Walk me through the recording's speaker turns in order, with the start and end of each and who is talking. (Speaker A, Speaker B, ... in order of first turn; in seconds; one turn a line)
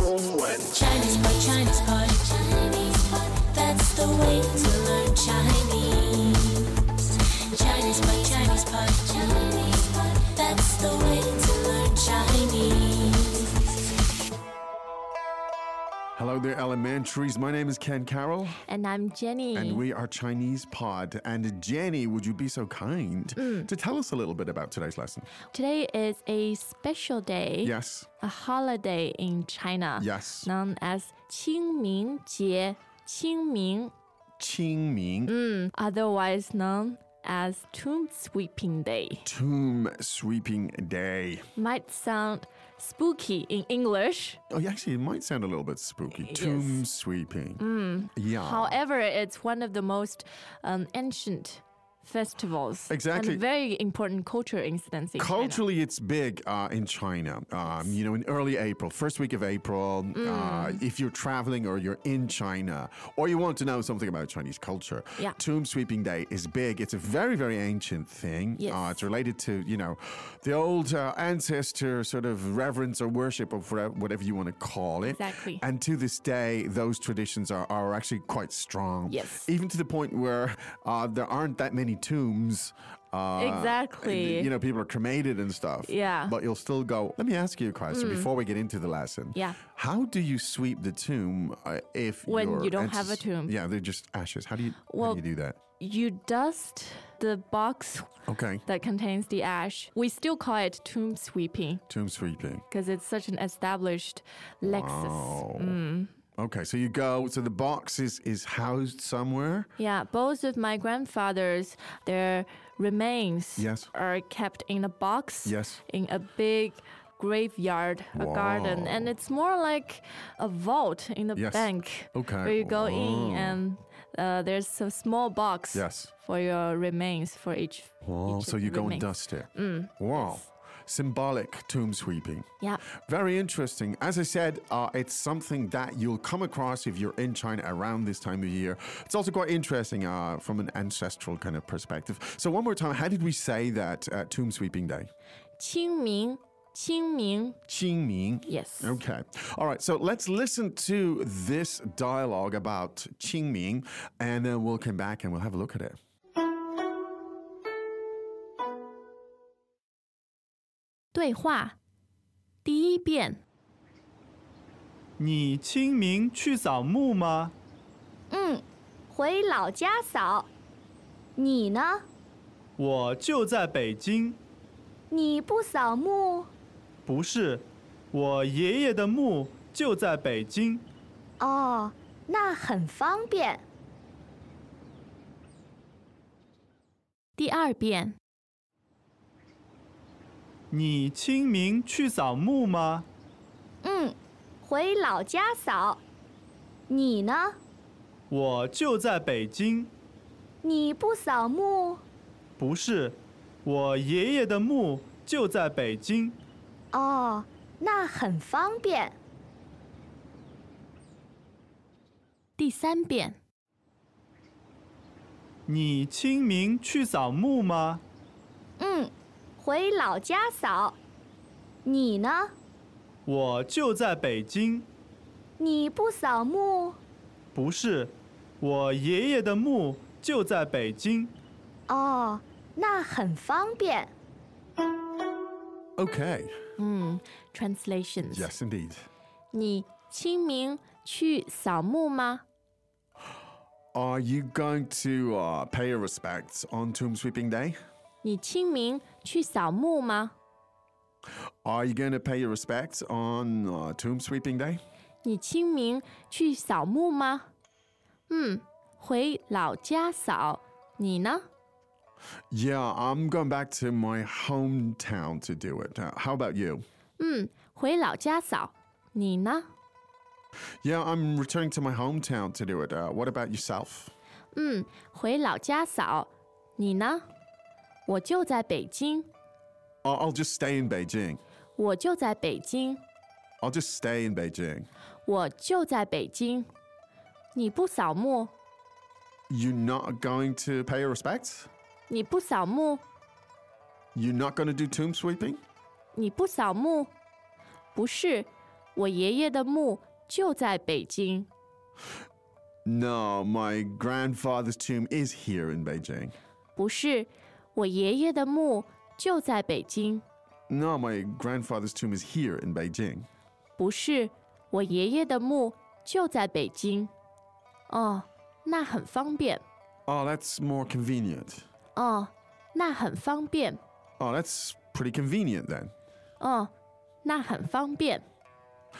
Speaker A: 1.6-2.7
Speaker A: 3.3-6.5
Speaker A: 7.7-9.4
Speaker A: 11.3-13.1
Speaker B: 16.2-18.6
Speaker C: 18.7-19.8
Speaker B: 19.5-25.3
Speaker C: 23.4-23.7
Speaker C: 25.5-33.9
Speaker B: 27.6-28.1
Speaker B: 30.0-30.5
Speaker B: 34.4-35.3
Speaker C: 35.3-39.2
Speaker B: 39.2-41.5
Speaker C: 41.5-44.4
Speaker B: 44.5-48.8
Speaker C: 46.1-46.8
Speaker C: 47.6-55.6
Speaker B: 52.9-53.4
Speaker B: 55.2-95.6
Speaker C: 57.6-58.0
Speaker C: 60.1-60.8
Speaker C: 68.6-69.0
Speaker C: 75.0-75.6
Speaker C: 79.1-79.5
Speaker C: 83.4-84.5
Speaker C: 85.8-86.3
Speaker C: 87.9-88.3
Speaker C: 92.3-93.5
Speaker C: 94.9-95.2
Speaker C: 95.8-98.1
Speaker B: 98.3-98.6
Speaker C: 98.6-101.8
Speaker B: 101.9-102.6
Speaker C: 102.7-106.1
Speaker B: 104.6-105.8
Speaker B: 106.4-109.7
Speaker C: 109.8-130.4
Speaker B: 113.6-113.9
Speaker B: 115.4-115.8
Speaker B: 118.1-119.1
Speaker B: 121.3-123.6
Speaker B: 125.7-126.1
Speaker B: 128.0-145.1
Speaker C: 145.6-147.6
Speaker B: 147.7-156.0
Speaker C: 148.5-149.0
Speaker C: 161.1-161.8
Speaker C: 162.6-163.4
Speaker D: 165.2-167.5
Speaker E: 168.3-170.5
Speaker E: 171.3-172.1
Speaker D: 172.8-174.4
Speaker E: 175.1-176.5
Speaker D: 177.1-180.9
Speaker E: 181.4-183.6
Speaker C: 187.4-188.2
Speaker D: 190.7-193.1
Speaker E: 193.8-196.0
Speaker E: 196.9-197.6
Speaker D: 198.3-199.9
Speaker E: 200.6-202.0
Speaker D: 202.6-206.4
Speaker E: 206.9-209.2
Speaker C: 212.6-213.4
Speaker D: 215.7-218.0
Speaker E: 218.8-221.0
Speaker E: 221.8-222.5
Speaker D: 223.2-224.9
Speaker E: 225.6-227.0
Speaker D: 227.5-231.3
Speaker E: 231.9-234.1
Speaker B: 236.0-236.6
Speaker C: 236.8-238.5
Speaker B: 238.2-239.1
Speaker C: 239.5-242.4
Speaker B: 243.9-247.8
Speaker C: 248.2-250.3
Speaker B: 251.6-254.8
Speaker C: 255.2-257.5
Speaker C: 258.3-261.4
Speaker B: 262.5-266.8
Speaker C: 267.2-269.7
Speaker B: 270.8-274.1
Speaker C: 274.5-277.2
Speaker C: 278.1-279.3
Speaker B: 280.0-281.4
Speaker C: 281.8-283.0
Speaker B: 283.6-284.9
Speaker C: 285.2-286.7
Speaker C: 287.5-288.5
Speaker B: 289.5-291.7
Speaker C: 292.1-293.0
Speaker B: 294.1-295.6
Speaker C: 296.1-297.1
Speaker C: 297.9-301.5
Speaker B: 302.9-306.3
Speaker C: 306.8-310.2
Speaker B: 310.7-313.3
Speaker C: 313.8-317.1
Speaker C: 317.9-319.6
Speaker B: 320.1-321.6
Speaker C: 321.9-323.8
Speaker B: 324.2-325.9
Speaker C: 326.4-326.7
Speaker C: 327.2-328.2